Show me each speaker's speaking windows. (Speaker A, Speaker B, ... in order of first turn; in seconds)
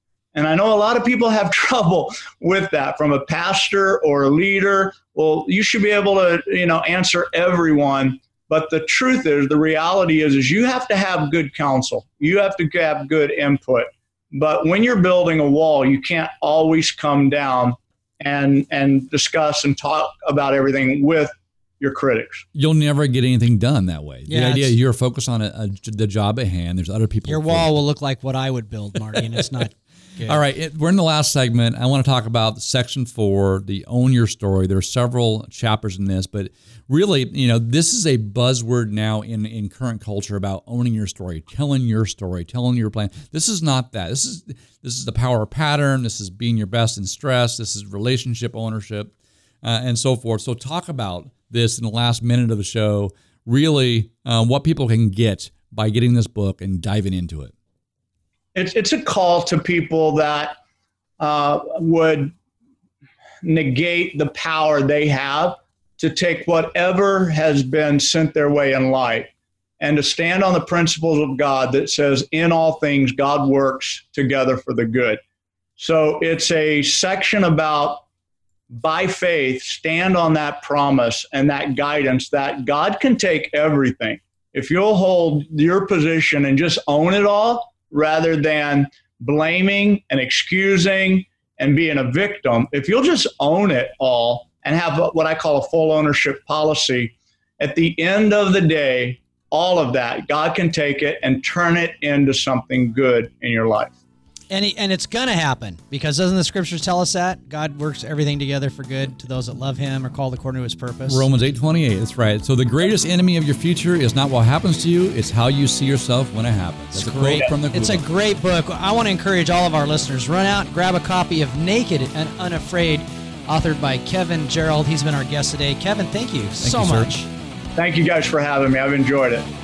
Speaker A: 0.3-22.4, 58.5-60.6, 61.2-62.3, 63.4-75.2, 75.8-78.0, 78.7-103.9, 127.8-129.5
Speaker B: 22.6-27.8, 29.2-29.4, 30.3-57.5, 111.1-118.0, 126.6-127.1
Speaker C: 24.3-24.8, 27.3-30.4, 104.5-111.3, 116.9-127.3